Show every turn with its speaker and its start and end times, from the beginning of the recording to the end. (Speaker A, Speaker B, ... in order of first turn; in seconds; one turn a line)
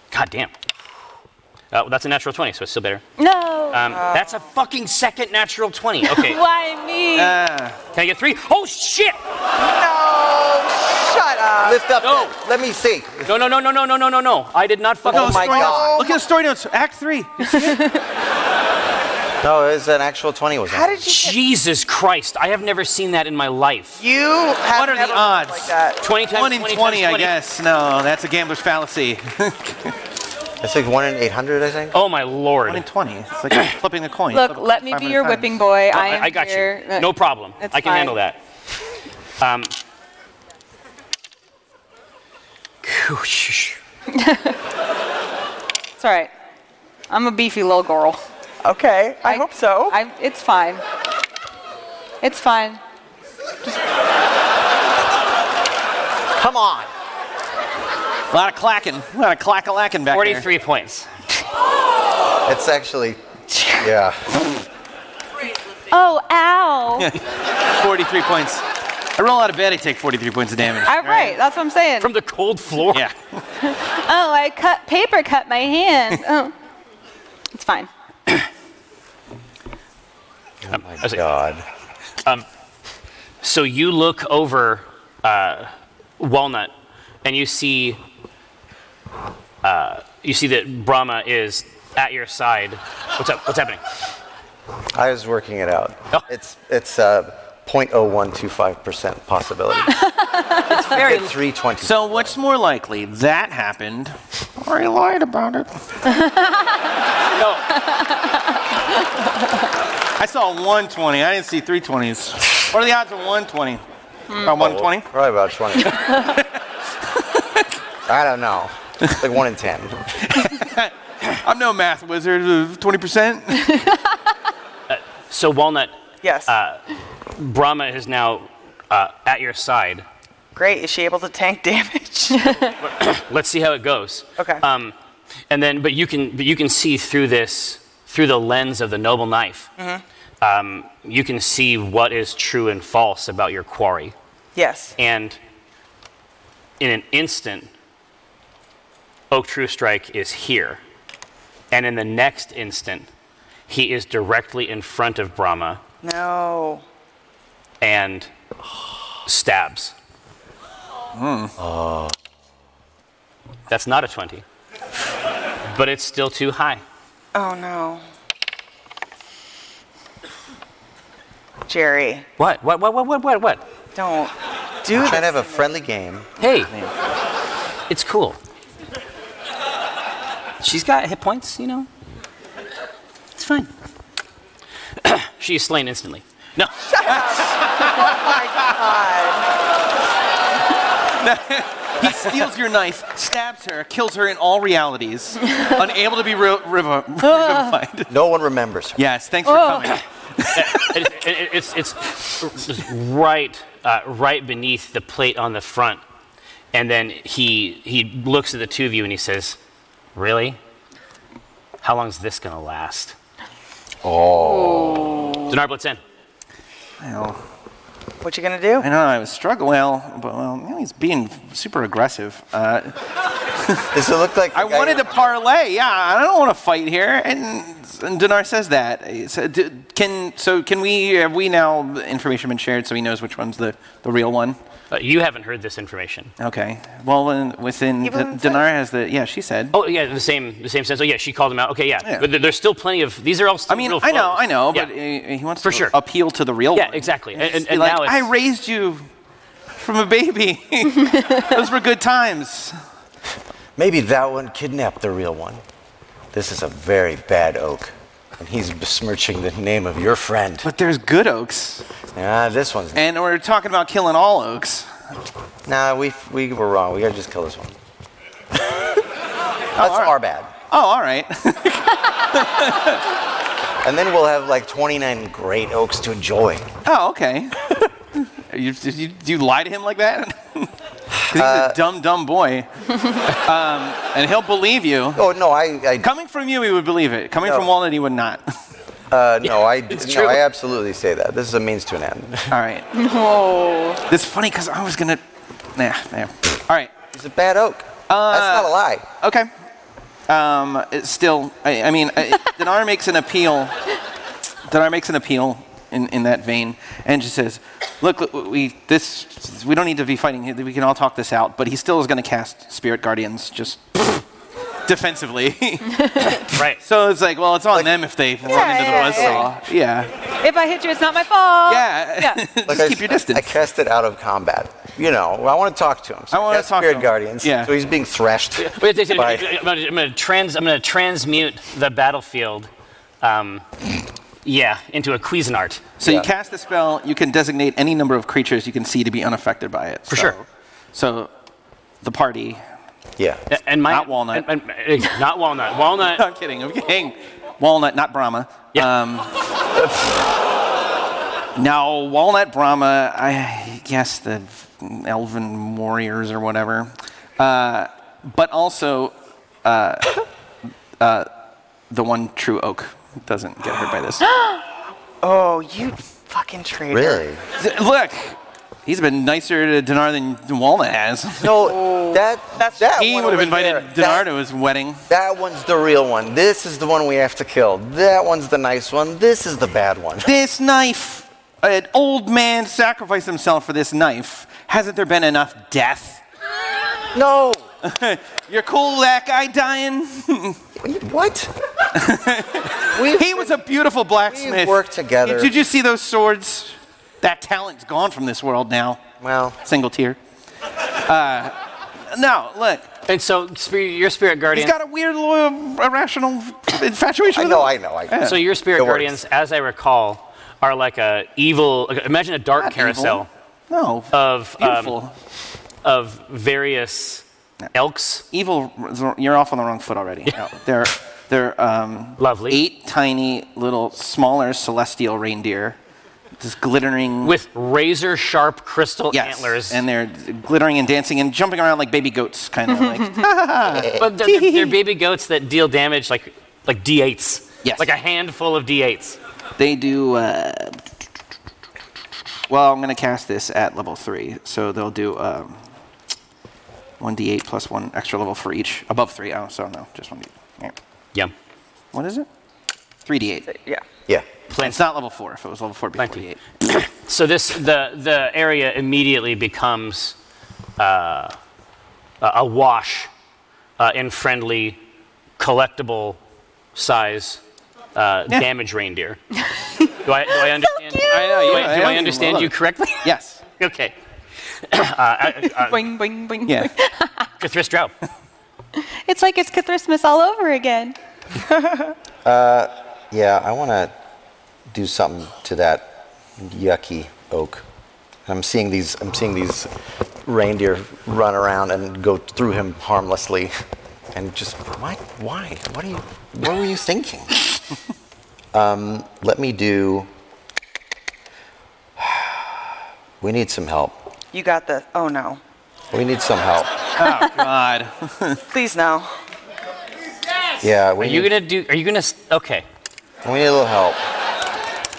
Speaker A: 0.1-0.5
Speaker A: 1.7-3.0
Speaker B: 3.2-3.8
Speaker A: 3.7-6.4
Speaker C: 3.9-4.4
Speaker B: 6.0-7.4
Speaker D: 7.1-7.8
Speaker A: 7.9-9.2
Speaker C: 9.6-11.8
Speaker E: 11.6-13.3
Speaker A: 12.0-12.3
Speaker A: 13.2-15.7
Speaker E: 15.1-16.0
Speaker D: 15.1-17.9
Speaker C: 15.4-16.2
Speaker E: 19.4-21.0
Speaker C: 20.7-21.4
Speaker A: 21.0-24.0
Speaker C: 24.0-26.0
Speaker D: 24.7-25.7
Speaker A: 26.0-27.4
Speaker D: 26.3-29.9
Speaker E: 30.6-32.0
Speaker A: 31.9-32.8
Speaker D: 32.7-35.6
Speaker B: 34.3-37.1
Speaker A: 35.9-38.4
Speaker B: 37.6-38.1
Speaker A: 39.4-39.7
Speaker A: 42.8-43.8
Speaker B: 44.1-44.6
Speaker B: 46.0-46.3
Speaker B: 47.1-48.2
Speaker C: 48.6-50.0
Speaker B: 49.2-50.8
Speaker B: 52.2-52.8
Speaker E: 56.4-56.9
Speaker D: 58.3-60.5
Speaker A: 60.1-61.1
Speaker E: 62.5-64.5
Speaker B: 65.9-67.1
Speaker D: 67.7-68.6
Speaker D: 69.2-71.3
Speaker B: 70.8-72.1
Speaker A: 72.0-73.0
Speaker D: 72.9-73.4
Speaker B: 73.6-76.5
Speaker B: 77.5-77.9
Speaker E: 80.7-81.6
Speaker A: 80.7-81.2
Speaker A: 83.4-86.7
Speaker A: 87.2-88.0
Speaker A: 89.6-93.8
Speaker E: 94.9-100.0
Speaker A: 100.7-101.4
Speaker E: 100.9-102.3
Speaker D: 101.8-105.7
Speaker B: 106.1-106.8
Speaker A: 107.3-107.6
Speaker B: 107.8-108.4
Speaker D: 110.2-113.8
Speaker D: 114.3-115.1
Speaker E: 114.5-116.0
Speaker D: 115.8-116.6
Speaker D: 117.1-117.7
Speaker E: 118.1-120.0
Speaker D: 120.3-123.9
Speaker A: 124.9-126.0
Speaker C: 126.2-126.5
Speaker A: 126.5-126.8
Speaker A: 127.3-130.0
Speaker C: 130.5-132.6
Speaker A: 132.8-134.9
Speaker C: 134.4-134.6
Speaker A: 135.5-139.7
Speaker C: 139.8-140.0
Speaker A: 140.4-144.1
Speaker C: 144.5-144.9
Speaker A: 145.0-145.4
Speaker A: 146.8-147.7
Speaker A: 149.3-150.8
Speaker A: 151.7-153.1
Speaker A: 153.7-155.8
Speaker C: 156.0-156.8
Speaker A: 157.8-158.3
Speaker A: 159.2-159.9
Speaker D: 161.1-161.5
Speaker E: 161.6-162.2
Speaker A: 163.7-164.4
Speaker A: 165.7-166.8
Speaker C: 167.3-168.0
Speaker C: 171.7-172.2
Speaker A: 172.4-173.6
Speaker C: 173.9-174.3
Speaker C: 174.8-175.6
Speaker E: 174.9-176.3
Speaker A: 176.4-176.7
Speaker A: 177.9-178.4
Speaker A: 180.6-181.9
Speaker A: 183.3-183.7
Speaker A: 185.0-186.7
Speaker C: 186.9-189.5
Speaker D: 187.1-188.8
Speaker D: 191.1-198.1
Speaker E: 198.1-199.0
Speaker D: 199.0-201.0
Speaker B: 199.4-199.9
Speaker A: 200.5-206.0
Speaker A: 206.7-209.6
Speaker A: 210.1-210.6
Speaker A: 211.8-213.2
Speaker E: 214.0-215.3
Speaker A: 215.5-216.0
Speaker D: 217.0-217.4
Speaker C: 218.2-218.9
Speaker D: 218.8-223.0
Speaker D: 223.6-223.9
Speaker E: 223.9-225.2
Speaker D: 224.5-234.6
Speaker A: 234.9-236.3
Speaker D: 236.4-239.7
Speaker C: 238.0-238.6
Speaker A: 239.7-244.9
Speaker D: 243.7-249.1
Speaker A: 245.6-245.9
Speaker A: 246.7-248.3
Speaker D: 249.8-252.8
Speaker E: 253.8-255.6
Speaker E: 256.3-260.7
Speaker D: 260.6-261.8
Speaker E: 262.1-263.0
Speaker D: 262.9-264.9
Speaker E: 265.6-267.8
Speaker D: 269.8-270.1
Speaker E: 269.8-270.5
Speaker D: 270.7-273.1
Speaker E: 273.8-276.6
Speaker D: 276.8-280.7
Speaker E: 281.1-281.8
Speaker D: 281.3-282.7
Speaker D: 283.2-285.2
Speaker E: 285.1-286.1
Speaker D: 286.0-288.5
Speaker E: 289.1-292.5
Speaker A: 289.4-290.4
Speaker D: 292.5-292.9
Speaker B: 292.9-294.0
Speaker D: 294.1-295.2
Speaker D: 295.7-296.9
Speaker E: 297.1-299.1
Speaker D: 298.1-299.5
Speaker D: 300.3-303.8
Speaker D: 304.7-314.2
Speaker D: 314.8-320.1
Speaker A: 316.5-316.8
Speaker C: 318.5-319.5
Speaker B: 318.5-319.5
Speaker B: 320.4-322.4
Speaker D: 321.6-323.6
Speaker E: 322.6-329.5
Speaker D: 326.3-327.7
Speaker A: 328.6-332.7
Speaker A: 333.2-333.6
Speaker A: 334.4-335.8
Speaker D: 336.0-341.3
Speaker E: 336.0-336.3
Speaker A: 340.1-340.4
Speaker D: 342.0-342.6
Speaker E: 343.2-343.4
Speaker A: 343.5-346.2
Speaker D: 343.9-344.5
Speaker D: 346.0-349.4
Speaker D: 351.6-360.2
Speaker D: 361.0-361.3
Speaker D: 361.9-364.3
Speaker C: 365.2-367.2
Speaker E: 366.9-367.4
Speaker D: 367.6-371.6
Speaker E: 371.4-374.3
Speaker C: 371.6-373.4
Speaker D: 372.9-375.0
Speaker E: 375.1-380.3
Speaker D: 380.2-386.2
Speaker E: 387.1-387.6
Speaker D: 387.8-390.6
Speaker E: 390.8-391.5
Speaker D: 391.9-399.0
Speaker E: 392.9-393.5
Speaker E: 394.3-395.5
Speaker E: 399.2-399.6
Speaker D: 399.6-400.2
Speaker D: 401.0-402.9
Speaker A: 403.1-404.7
Speaker D: 404.5-408.4
Speaker E: 407.3-409.1
Speaker A: 408.2-413.3
Speaker D: 412.6-415.1
Speaker A: 414.1-414.9
Speaker A: 415.8-418.2
Speaker D: 418.3-425.8
Speaker A: 422.2-422.6
Speaker D: 426.4-427.3
Speaker A: 427.2-429.8
Speaker D: 429.1-434.8
Speaker A: 433.9-439.2
Speaker D: 439.6-440.8
Speaker D: 442.5-445.6
Speaker D: 447.0-450.8
Speaker D: 451.9-452.3
Speaker D: 453.1-453.5
Speaker C: 453.5-453.8
Speaker A: 454.5-454.8
Speaker D: 454.6-456.4
Speaker A: 456.0-460.2
Speaker A: 460.8-461.4
Speaker A: 462.2-463.1
Speaker A: 463.8-464.8
Speaker A: 465.4-466.2
Speaker A: 466.7-467.4
Speaker A: 467.9-469.2
Speaker A: 470.0-473.9
Speaker B: 471.0-471.6
Speaker D: 471.0-473.4
Speaker A: 474.6-475.8
Speaker B: 475.5-477.3
Speaker D: 476.5-476.7
Speaker A: 477.4-477.9
Speaker B: 478.8-480.9
Speaker C: 481.5-481.9
Speaker E: 482.2-483.9
Speaker E: 484.7-487.6
Speaker E: 488.3-489.7
Speaker E: 490.2-493.5
Speaker E: 494.1-497.4
Speaker E: 498.5-500.1
Speaker E: 502.0-502.5
Speaker E: 503.2-504.0
Speaker C: 504.3-505.4
Speaker E: 505.9-506.7
Speaker D: 507.0-508.4
Speaker C: 508.5-509.1
Speaker E: 510.6-511.3
Speaker A: 511.0-512.6
Speaker E: 513.2-514.0